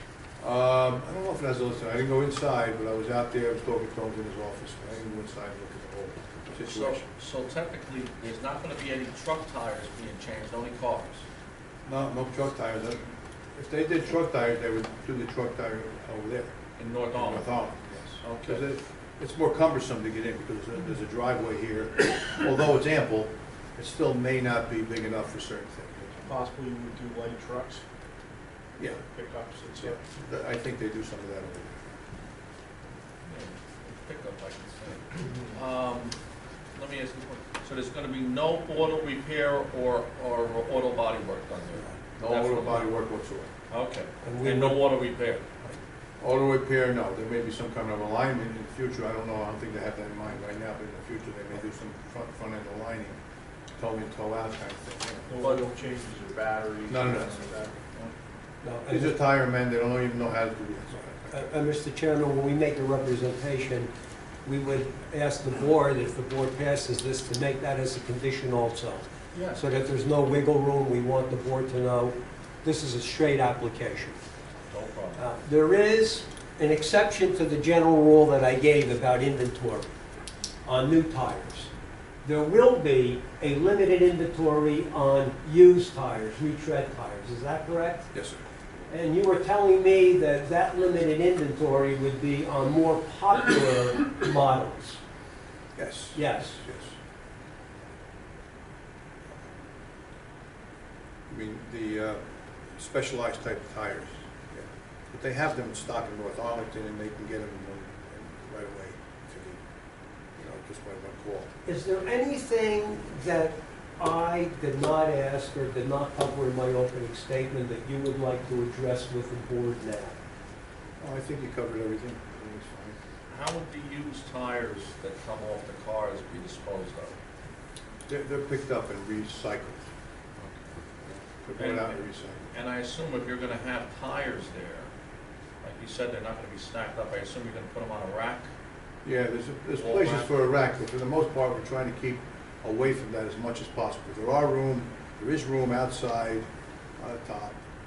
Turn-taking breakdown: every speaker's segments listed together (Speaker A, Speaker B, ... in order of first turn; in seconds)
Speaker A: 0.4-7.1, 11.9-16.5, 17.1-26.3, 29.8-31.9, 42.2-43.5, 46.2-53.2, 53.8-55.3, 56.9-57.4, 58.9-61.5, 88.1-88.4, 95.8-97.0, 101.3-102.2, 102.7-109.6, 110.4-111.5, 121.0-123.0, 128.1-129.9, 131.0-132.5, 139.1-146.5, 147.0-147.6
Speaker B: 6.7-11.2, 16.8-17.5, 18.2-18.6, 33.3-36.1, 36.8-42.9, 43.7-45.5, 69.3-69.6, 74.7-75.2, 123.3-127.2, 131.6-134.9, 135.6-138.5, 139.8-140.3
Speaker C: 26.2-27.8, 29.0-30.0, 55.3-57.9
Speaker D: 44.2-44.8, 58.6-59.2, 61.3-63.9, 64.5-74.2, 75.2-80.0, 80.7-81.7, 82.2-88.1, 88.9-95.0, 96.1-96.6, 111.7-120.2